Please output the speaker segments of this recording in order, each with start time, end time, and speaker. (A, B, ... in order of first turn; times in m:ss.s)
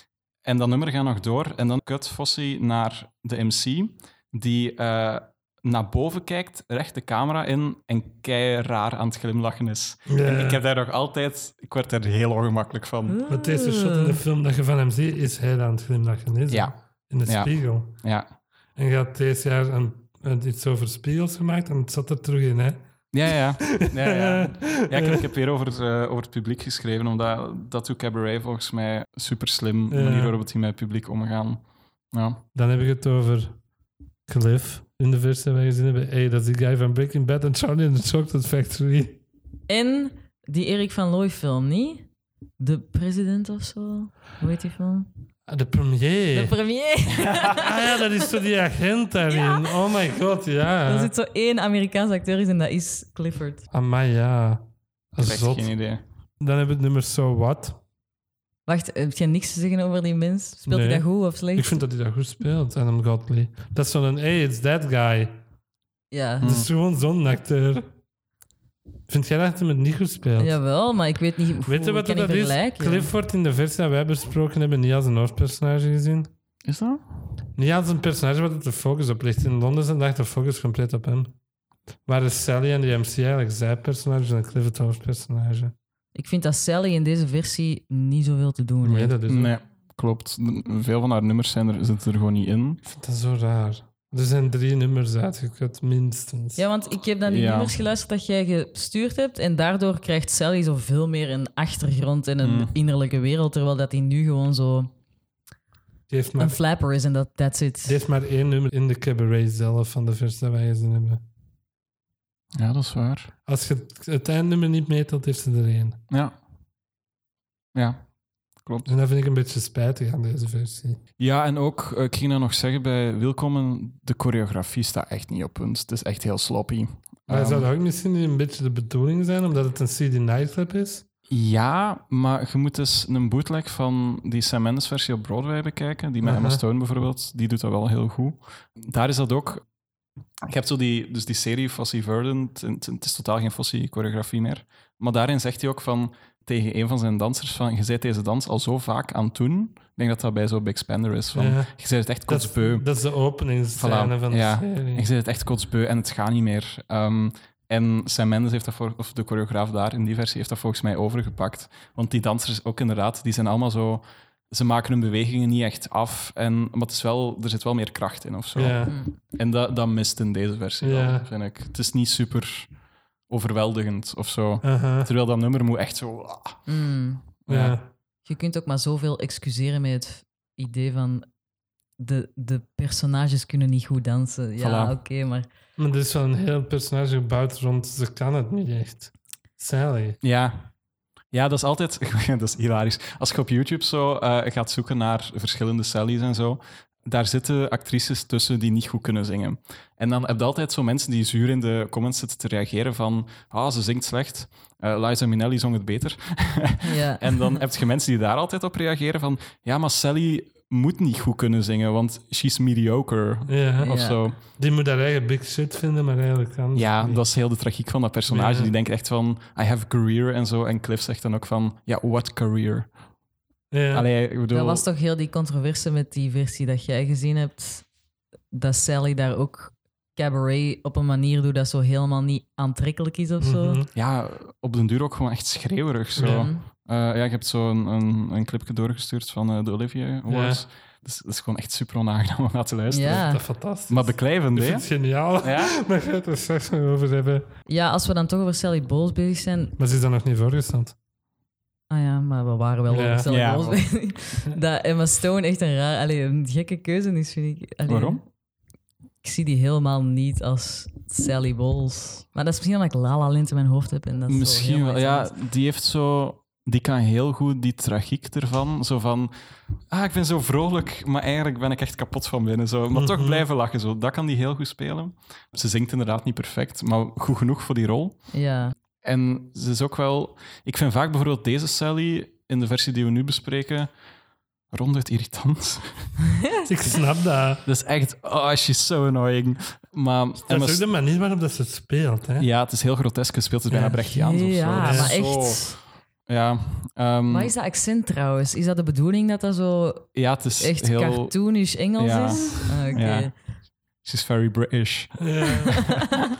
0:00.4-0:13.2 A
0:10.1-0:10.6 B
0:13.1-0:14.2 C
0:13.3-0:18.0 B
0:17.2-0:18.3 A
0:18.8-0:22.8 B
0:23.1-0:32.4 A
0:23.6-0:25.2 B
0:29.9-0:30.4 B
0:32.5-0:33.6 B
0:34.3-0:39.2 B
0:39.7-0:42.1 C
0:42.6-0:45.1 C
0:45.5-0:46.6 B
0:46.3-0:48.0 C
0:47.4-0:51.1 B
0:49.3-0:49.8 C
0:50.9-0:53.7 C
0:53.7-0:55.7 B
0:55.2-0:56.0 A
0:56.4-0:57.8 B
0:58.7-1:01.8 C
1:00.7-1:05.4 B
1:06.1-1:06.6 C
1:06.4-1:07.9 B
1:06.4-1:06.7 A
1:09.1-1:10.6 B
1:10.4-1:13.1 C
1:11.7-1:16.3 B
1:16.7-1:17.0 A
1:17.6-1:21.4 B
1:22.1-1:25.7 B
1:26.2-1:29.1 C
1:28.8-1:29.5 B
1:29.3-1:32.8 A
1:32.8-1:36.6 B
1:36.6-1:44.9 C
1:37.3-1:37.8 A
1:42.4-1:42.7 A
1:46.1-1:46.6 B
1:46.4-1:48.0 C
1:47.8-1:51.2 B
1:52.6-1:53.3 A
1:53.5-1:56.0 B
1:57.8-1:58.0 A
1:58.6-1:58.9 A
1:58.9-2:01.0 B
2:01.2-2:07.7 A
2:07.3-2:11.1 B
2:11.3-2:19.6 A
2:16.2-2:16.6 B
2:20.5-2:32.9 A
2:31.3-2:31.7 B
2:32.3-2:35.1 B
2:33.8-2:52.7 A
2:48.6-2:49.0 B
2:48.9-2:49.1 C
2:50.8-2:51.3 B
2:53.3-2:56.6 A
2:54.6-2:55.1 B
2:56.7-2:57.2 C
2:57.5-2:57.8 A
2:57.5-2:57.9 B
2:58.2-3:01.3 C
3:02.0-3:05.5 C
3:04.6-3:05.0 A
3:05.8-3:10.2 B
3:10.2-3:10.7 A
3:11.3-3:34.4 A
3:26.8-3:27.6 C
3:33.5-3:33.9 B
3:33.8-3:34.2 C
3:34.6-3:37.2 B
3:36.7-3:42.9 A
3:38.3-3:38.7 B
3:43.7-3:44.1 B
3:43.9-3:44.8 A
3:44.5-3:47.9 C
3:48.5-3:53.8 C
3:53.4-3:53.9 B
3:53.9-4:03.2 A
3:56.2-3:56.5 B
3:56.2-3:56.6 C
4:00.3-4:00.6 B
4:02.9-4:03.4 C
4:03.1-4:07.5 B
4:03.9-4:04.9 A
4:05.4-4:05.7 A
4:07.7-4:09.8 C
4:09.8-4:11.0 B
4:11.9-4:18.2 C
4:12.9-4:13.3 B
4:13.3-4:13.8 A
4:17.9-4:18.2 A
4:19.2-4:25.3 C
4:24.3-4:29.3 A
4:29.9-4:38.3 A
4:32.9-4:33.4 B
4:38.3-4:38.8 C
4:39.0-4:43.9 A
4:44.7-4:46.1 A
4:46.7-4:47.6 B
4:47.6-4:50.8 A
4:50.5-4:52.5 B
4:52.4-4:57.5 A
4:53.9-4:55.8 C
4:54.8-4:55.2 B
4:57.3-5:03.4 C
5:00.2-5:01.3 A
5:02.0-5:03.3 A
5:04.0-5:06.2 A
5:05.2-5:05.9 B
5:05.6-5:06.1 C